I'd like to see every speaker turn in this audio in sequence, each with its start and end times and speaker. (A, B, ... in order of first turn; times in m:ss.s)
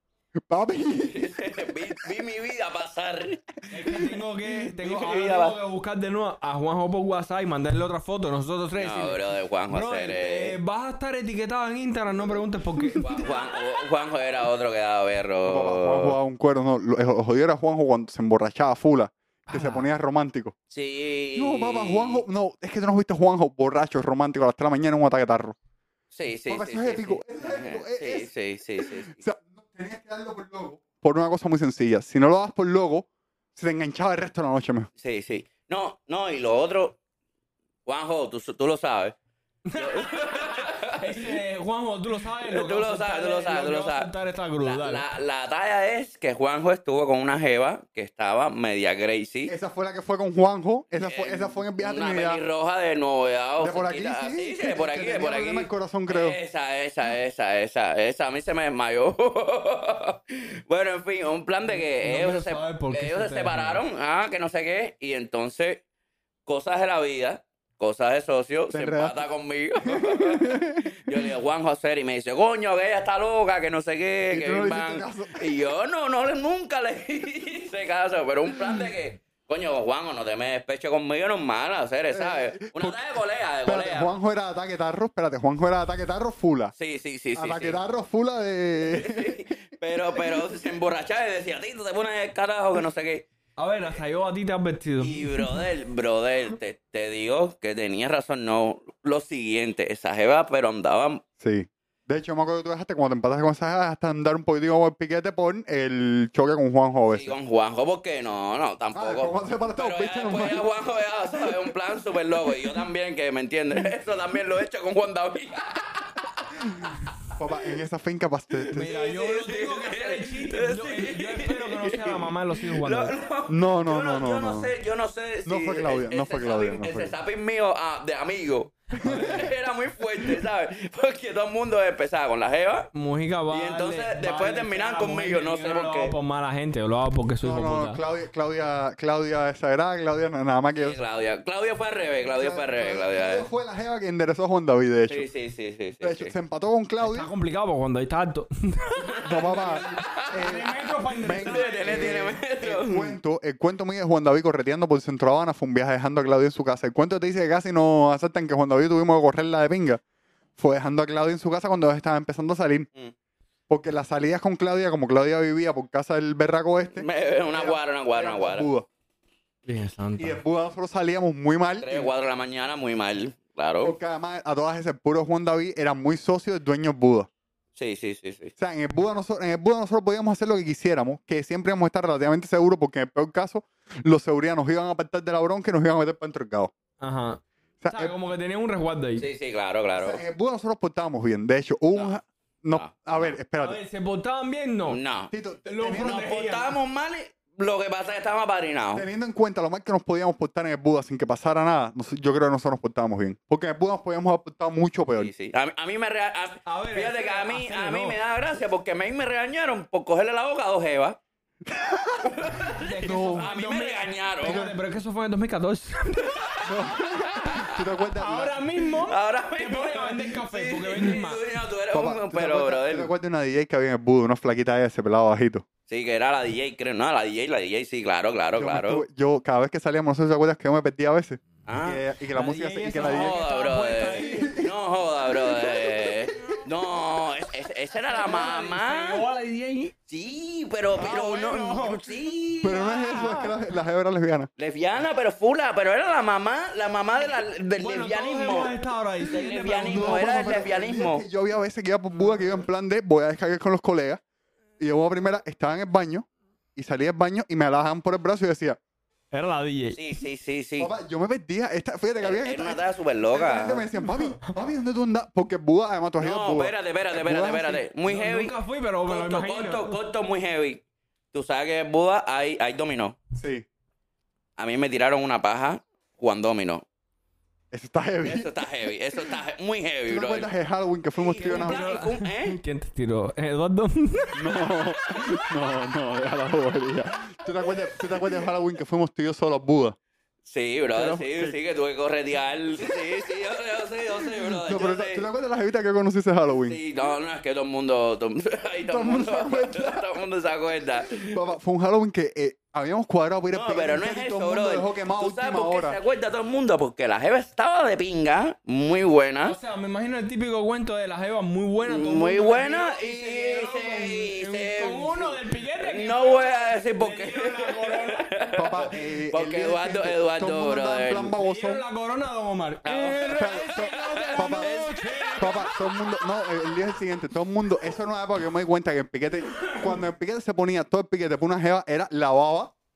0:00.5-0:01.5 A
0:01.1-0:03.4 B
0:03.7-0:13.2 C
0:04.5-0:05.6 B
0:08.8-0:10.6 B
0:13.0-0:16.2 B
0:15.4-0:20.6 A
0:19.5-0:19.9 C
0:20.7-0:22.2 B
0:21.4-0:25.6 A
0:26.1-0:29.2 B
0:26.5-0:34.9 A
0:35.0-0:37.0 B
0:37.9-0:39.2 B
0:39.7-0:45.0 C
0:39.8-0:41.4 B
0:42.4-0:44.1 B
0:44.6-0:49.5 B
0:49.5-0:52.4 A
0:51.0-1:05.8 B
0:53.6-0:56.4 A
1:01.7-1:03.8 C
1:06.5-1:24.1 B
1:08.7-1:09.2 A
1:09.8-1:11.1 A
1:14.3-1:15.6 A
1:22.1-1:23.0 A
1:23.6-1:26.8 A
1:26.8-1:27.8 B
1:27.4-1:29.4 A
1:28.8-1:33.3 B
1:33.6-1:35.6 C
1:35.0-1:41.2 B
1:41.4-1:47.4 A
1:47.1-1:56.9 B
1:48.9-1:50.7 A
1:57.4-1:58.9 A
1:58.7-2:03.1 C
1:58.9-2:12.9 B
2:03.5-2:04.7 A
2:05.4-2:07.2 A
2:09.0-2:09.5 A
2:09.0-2:09.5 C
2:12.9-2:18.0 C
2:13.5-2:16.2 B
2:17.4-2:21.0 A
2:20.8-2:23.5 B
2:22.4-2:25.3 A
2:25.1-2:26.3 B
2:26.0-2:27.3 A
2:27.0-2:32.3 C
2:29.0-2:30.5 B
2:29.2-2:40.0 A
2:31.2-2:33.2 B
2:40.6-2:42.9 A
2:43.7-2:48.9 A
2:47.0-2:48.7 B
2:49.7-2:50.4 C
2:50.2-2:52.1 A
2:51.8-2:54.0 B
2:53.8-2:57.3 A
2:57.8-2:58.5 B
2:58.6-3:06.7 A
3:07.0-3:09.3 C
3:07.8-3:08.1 A
3:09.2-3:10.2 B
3:10.0-3:13.8 A
3:11.9-3:12.2 B
3:12.7-3:13.4 B
3:13.6-3:15.0 C
3:14.9-3:15.3 B
3:15.3-3:16.3 A
3:15.7-3:16.7 C
3:16.0-3:19.0 B
3:19.0-3:25.3 A
3:25.2-3:31.2 B
3:26.7-3:28.2 C
3:31.7-3:33.5 A
3:32.2-3:34.6 B
3:32.7-3:36.7 C
3:34.4-3:34.8 A
3:36.6-3:38.7 A
3:38.2-3:41.5 C
3:39.0-3:43.1 B
3:41.9-3:45.6 A
3:45.9-3:49.0 B
3:48.5-3:53.4 A
3:51.7-3:52.0 B
3:52.3-3:54.6 C
3:53.0-3:59.2 B
3:54.1-3:54.7 A
3:55.3-3:56.6 A
3:57.9-3:59.9 C
4:00.1-4:03.2 B
4:01.0-4:03.5 C
4:02.6-4:04.5 A
4:04.6-4:11.2 B
4:07.8-4:10.4 C
4:09.8-4:14.2 A
4:14.8-4:18.8 A
4:19.3-4:20.0 C
4:19.9-4:20.9 B
4:20.8-4:27.8 A
4:22.2-4:23.8 B
4:26.2-4:28.5 B
4:28.1-4:30.0 C
4:29.1-4:30.8 B
4:31.3-4:33.2 B
4:33.4-4:33.7 A
4:34.6-4:36.8 B
4:37.7-4:38.5 A
4:38.2-4:40.5 B
4:40.1-4:42.0 A
4:41.2-4:42.6 B
4:41.5-4:44.8 C
4:44.4-4:50.0 A
4:50.4-4:55.3 B
4:50.9-4:51.6 A
4:54.2-4:56.8 A
4:56.7-5:01.3 B
4:58.8-5:00.1 A
5:01.0-5:06.0 A
5:03.5-5:09.6 B
5:09.4-5:18.3 C
5:11.8-5:21.4 B
5:18.6-5:21.8 A
5:21.4-5:25.8 C
5:22.8-5:26.0 B
5:23.3-5:24.8 A
5:25.4-5:32.7 A
5:29.5-5:30.0 C